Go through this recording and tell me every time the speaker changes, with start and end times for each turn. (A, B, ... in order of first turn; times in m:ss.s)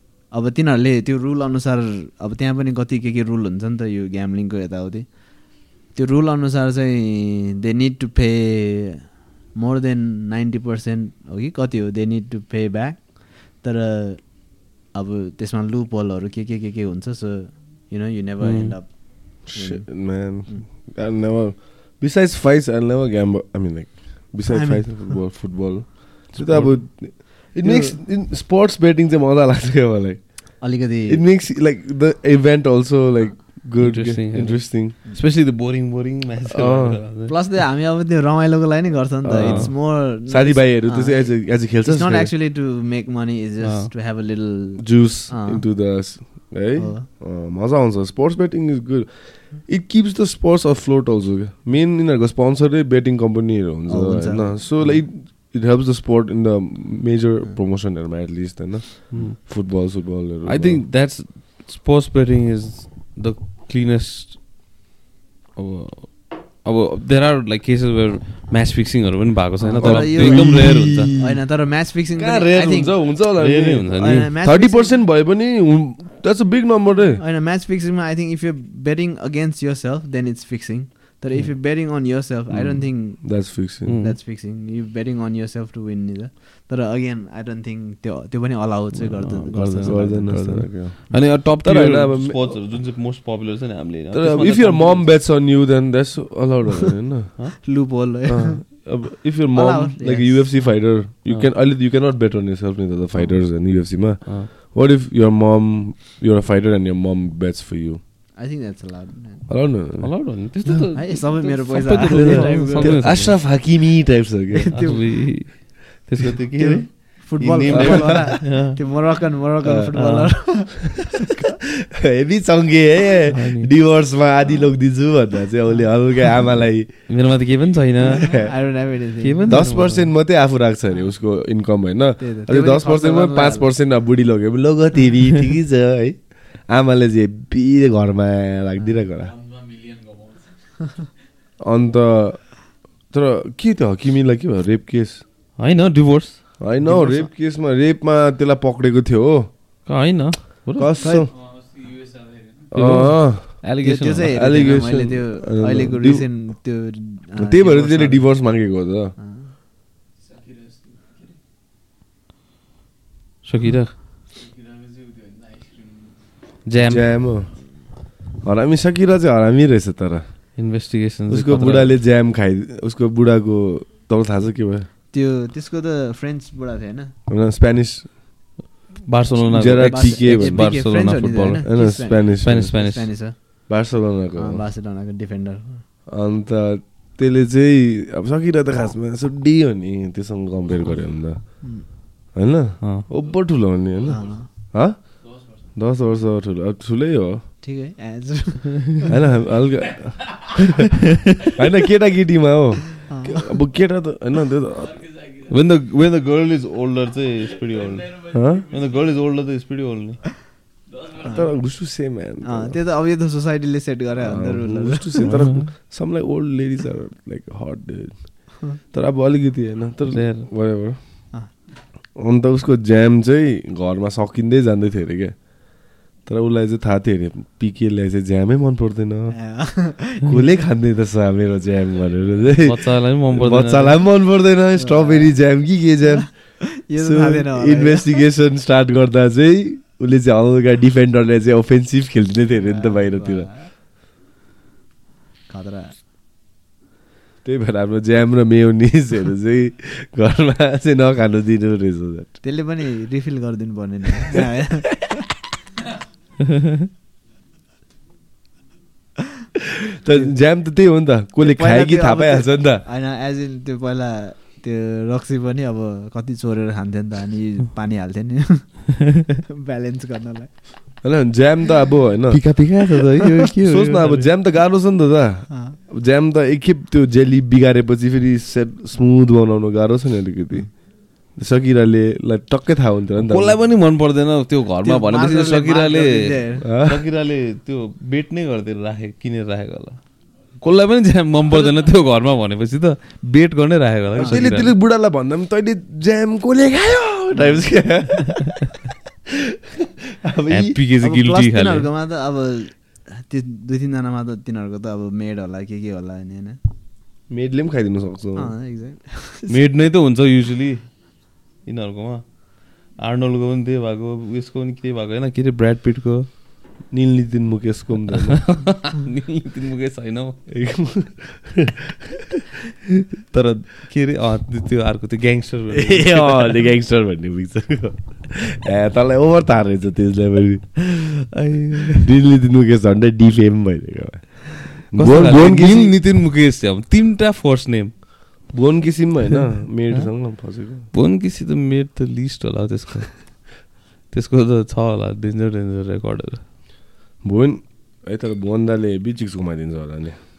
0:00.3-0:20.7 A
0:18.4-0:18.8 B
0:19.4-0:35.0 C
0:24.5-0:25.2 A
0:26.3-0:26.8 B
0:27.1-0:28.0 A
0:30.6-0:31.2 A
0:33.8-0:37.3 B
0:36.5-0:37.0 C
0:37.3-0:46.1 A
0:39.2-0:42.3 C
0:39.4-0:39.7 B
0:43.6-0:43.9 B
0:44.8-1:00.8 C
0:46.8-0:47.1 A
0:53.9-0:54.8 A
0:59.1-0:59.4 B
1:00.4-1:04.4 B
1:05.6-1:11.1 B
1:09.6-1:13.1 A
1:09.8-1:11.4 C
1:12.1-1:17.2 C
1:13.4-1:14.3 B
1:14.0-1:15.0 A
1:17.2-1:31.1 A
1:22.5-1:24.0 C
1:23.8-1:24.2 B
1:28.9-1:35.1 B
1:29.8-1:32.6 C
1:34.1-1:37.6 C
1:37.6-1:40.8 A
1:38.3-1:48.0 C
1:48.3-1:49.5 A
1:49.5-1:50.9 C
1:50.0-1:53.4 B
1:50.9-1:53.1 A
1:52.0-1:55.0 C
1:54.5-1:55.6 A
1:54.7-1:58.8 B
1:56.6-2:01.2 A
1:57.6-1:58.2 C
2:00.0-2:00.8 B
2:02.0-2:07.3 C
2:03.3-2:03.7 B
2:07.1-2:10.1 B
2:08.2-2:08.6 C
2:08.4-2:09.7 A
2:09.5-2:19.4 C
2:12.2-2:13.7 A
2:21.6-2:25.2 C
2:25.6-2:26.6 B
2:26.6-2:29.5 C
2:26.8-2:27.3 A
2:29.8-2:31.0 B
2:30.8-2:31.4 C
2:31.0-2:31.3 A
2:32.7-2:36.6 C
2:32.7-2:34.5 B
2:33.8-2:39.5 A
2:37.4-2:39.1 C
2:43.4-2:44.0 B
2:46.6-2:47.2 B
2:46.9-2:50.6 C
2:50.6-2:51.9 B
2:51.3-2:54.9 C
2:55.1-2:57.1 A
2:57.3-2:58.4 C
2:59.0-3:01.5 B
2:59.3-3:02.7 C
2:59.8-3:05.8 A
3:02.4-3:03.1 B
3:03.7-3:04.6 C
3:06.1-3:17.4 C
3:12.8-3:13.1 B
3:14.1-3:14.5 A
3:17.6-3:19.0 A
3:19.1-3:20.8 C
3:21.5-3:25.1 C
3:23.1-3:23.5 A
3:25.4-3:30.4 B
3:28.3-3:28.7 C
3:31.2-3:32.8 C
3:32.4-3:35.3 A
3:34.2-3:41.4 C
3:35.2-3:35.7 B
3:40.1-3:40.5 B
3:42.1-4:03.5 C
3:49.3-3:50.4 A
3:52.6-3:54.0 B
3:54.8-3:58.2 A
4:02.5-4:03.7 A
4:05.5-4:06.0 A
4:07.4-4:12.5 C
4:12.4-4:15.1 A
4:20.0-4:22.8 C
4:20.1-4:20.4 A
4:21.4-4:31.0 A
4:31.0-4:32.7 C
4:32.3-4:34.3 B
4:33.6-4:43.6 C
4:35.5-4:35.8 A
4:43.3-4:54.7 B
4:44.8-4:46.6 A
4:46.6-4:47.1 C
4:54.1-4:54.4 A
4:54.2-4:58.7 C
4:57.3-4:57.7 A
5:00.2-5:00.8 C
5:00.5-5:01.9 B
5:01.0-5:06.6 A
5:07.3-5:08.5 C
5:08.4-5:09.6 A
5:09.5-5:16.3 B
5:16.9-5:18.7 C
5:18.3-5:20.6 B
5:20.5-5:21.6 C
5:23.3-5:26.6 B
5:25.7-5:31.0 C
5:31.0-5:32.1 B
5:31.9-5:36.0 C
5:34.9-5:38.5 B
5:38.5-5:40.9 C
5:39.9-5:46.5 B
5:47.2-5:50.2 C